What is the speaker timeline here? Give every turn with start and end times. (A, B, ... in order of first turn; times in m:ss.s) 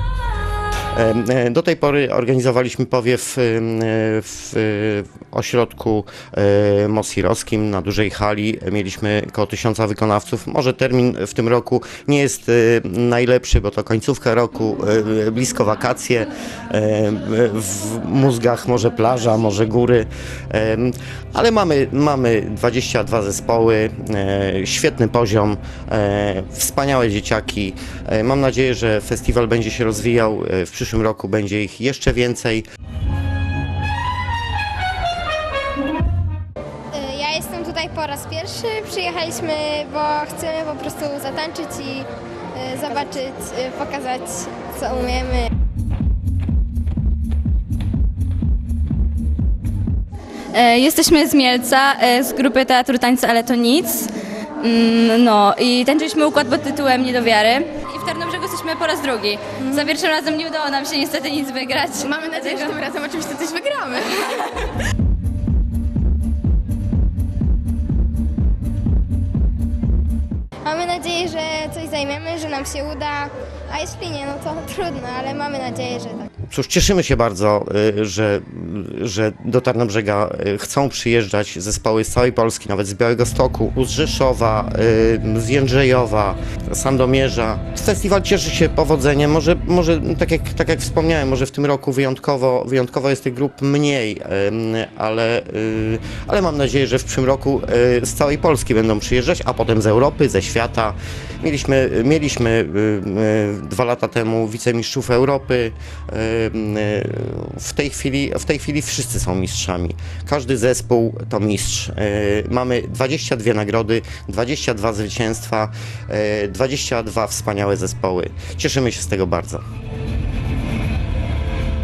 0:00.9-0:32.6 A
0:36.9-0:45.5 B
0:50.5-1:02.8 C
1:02.1-1:04.2 D
1:10.6-1:16.3 B
1:16.5-1:59.6 A